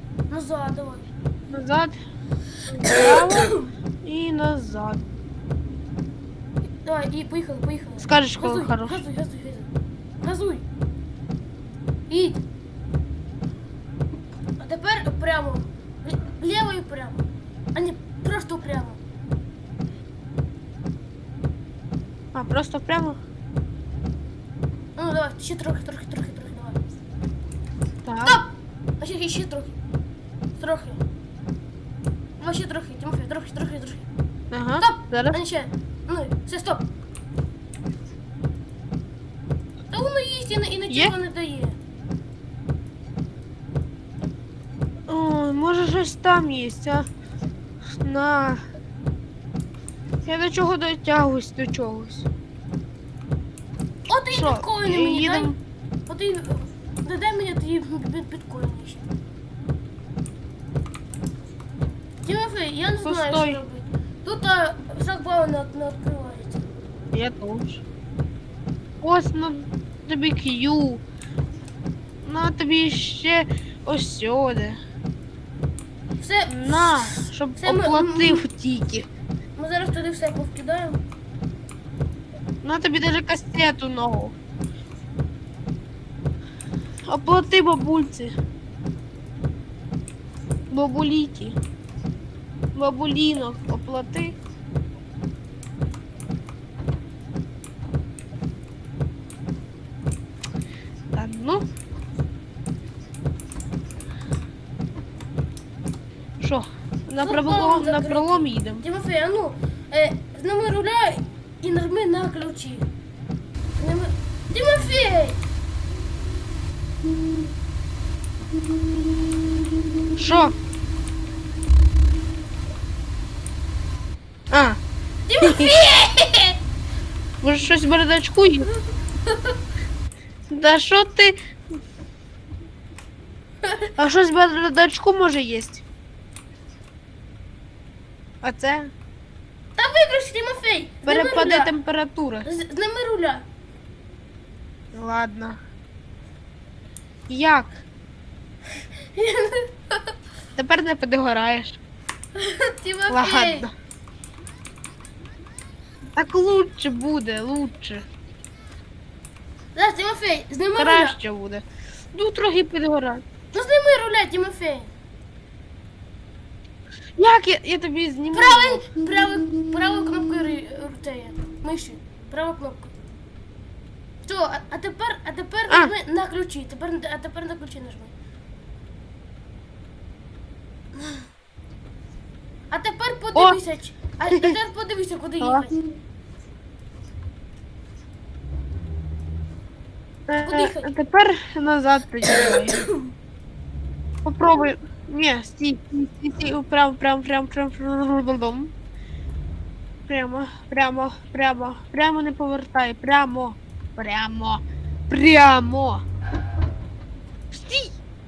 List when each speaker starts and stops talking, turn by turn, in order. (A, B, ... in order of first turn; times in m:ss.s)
0:00.3-0:01.1 A
0:01.5-0:02.0 B
0:02.7-0:05.0 B
0:02.8-0:03.7 A
0:06.8-0:09.7 A
0:08.0-0:09.0 B
0:10.2-0:10.6 A
0:12.1-0:12.4 A
0:14.6-0:17.2 A
0:17.7-0:19.0 A
0:22.3-0:23.2 B
0:25.0-0:26.8 A
0:28.0-0:28.4 B
0:28.2-0:29.7 A
0:30.6-0:31.0 A
0:32.4-0:34.0 A
0:34.5-0:35.4 B
0:34.8-0:36.8 A
0:39.9-0:41.8 A
0:40.9-0:41.1 B
0:45.1-0:47.0 B
0:48.0-0:48.6 B
0:50.2-0:52.3 B
0:54.1-0:55.5 A
0:54.3-0:55.6 B
0:56.1-0:59.0 A
1:02.2-1:06.6 A
1:03.0-1:03.6 B
1:07.1-1:07.8 B
1:09.0-1:11.0 B
1:12.2-1:14.8 B
1:16.2-1:18.4 A
1:16.5-1:19.1 B
1:19.6-1:21.0 A
1:22.6-1:24.3 B
1:27.1-1:28.3 B
1:30.7-1:31.6 B
1:32.8-1:34.4 B
1:41.1-1:41.6 B
1:46.4-1:48.8 B
1:47.2-1:52.9 A
1:53.8-1:55.4 A
2:00.2-2:00.5 B
2:04.5-2:04.8 B
2:05.3-2:06.6 A
2:05.4-2:05.7 B
2:07.4-2:08.7 B
2:10.5-2:11.3 B
2:13.6-2:13.9 A
2:14.0-2:15.8 B
2:18.4-2:18.9 B
2:19.8-2:21.7 A
2:21.0-2:22.5 B
2:22.4-2:23.4 A
2:24.9-2:25.6 B
2:27.3-2:27.7 B
2:28.7-2:30.1 A
2:30.6-2:31.8 B
2:32.3-2:33.7 A
2:33.1-2:33.7 B
2:36.1-2:38.0 B
2:39.7-2:41.2 A
2:40.8-2:41.6 B
2:42.1-2:43.2 B
2:43.5-2:44.9 A
2:47.2-2:48.8 B
2:48.3-2:52.9 A
2:54.2-2:58.1 A
2:55.7-2:55.9 B
3:02.7-3:05.7 A
3:05.4-3:05.7 B
3:10.3-3:12.8 B
3:10.4-3:10.9 A
3:14.2-3:18.7 B
3:20.1-3:26.0 B
3:27.5-3:28.0 B